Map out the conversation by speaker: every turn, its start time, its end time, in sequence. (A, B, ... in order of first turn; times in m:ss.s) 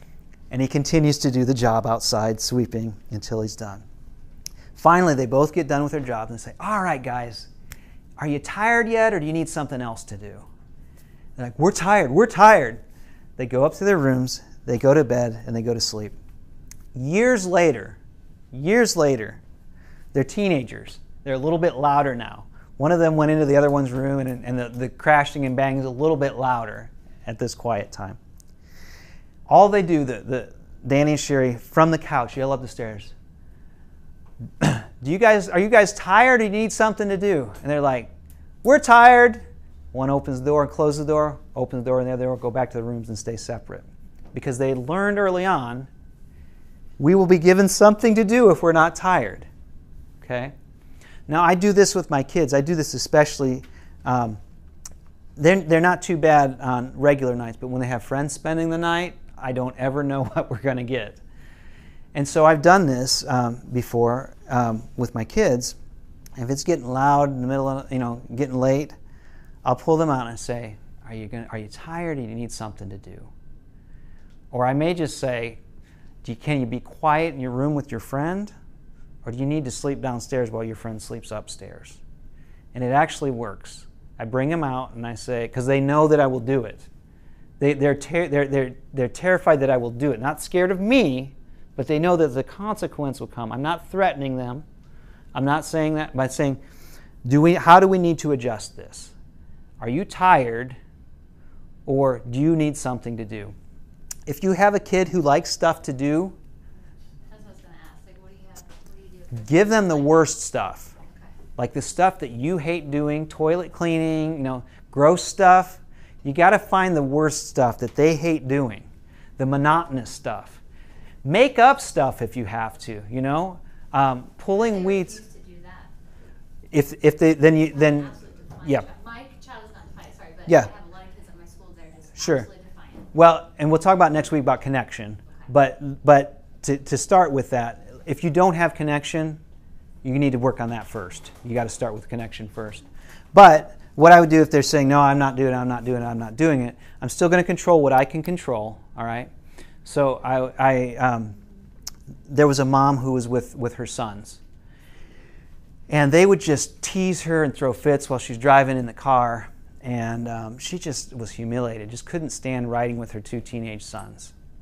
0:00.5-0:03.8 A
0:04.8-0:07.5 A
0:08.2-0:10.5 A
0:11.4-0:12.8 A
0:13.4-0:16.1 A
0:16.9-0:18.0 A
0:18.5-0:19.4 A
0:20.1-0:28.2 A
0:29.5-0:33.1 A
0:34.6-0:38.1 A
0:38.6-0:45.9 A
0:47.0-0:49.5 A
0:50.2-0:50.5 A
0:51.3-0:54.4 A
0:55.4-1:01.2 A
1:02.1-1:05.8 A
1:06.4-1:09.0 A
1:09.6-1:13.3 A
1:14.5-1:15.6 A
1:16.2-1:18.5 A
1:19.2-1:22.0 A
1:22.7-1:26.9 A
1:27.6-1:34.6 A
1:35.3-1:36.6 A
1:37.2-1:39.1 A
1:39.8-1:40.8 A
1:41.8-1:43.5 A
1:44.2-1:46.4 A
1:47.2-1:50.3 B
1:49.3-1:50.9 A
1:51.0-1:51.3 B
1:51.6-1:58.9 A
1:59.4-2:00.6 A
2:01.2-2:05.2 A
2:04.5-2:05.9 B
2:06.7-2:08.8 A
2:07.6-2:13.1 B
2:12.2-2:12.5 A
2:13.1-2:19.4 A
2:20.0-2:29.3 A
2:29.8-2:31.4 A
2:32.3-2:34.4 A
2:35.9-2:44.3 A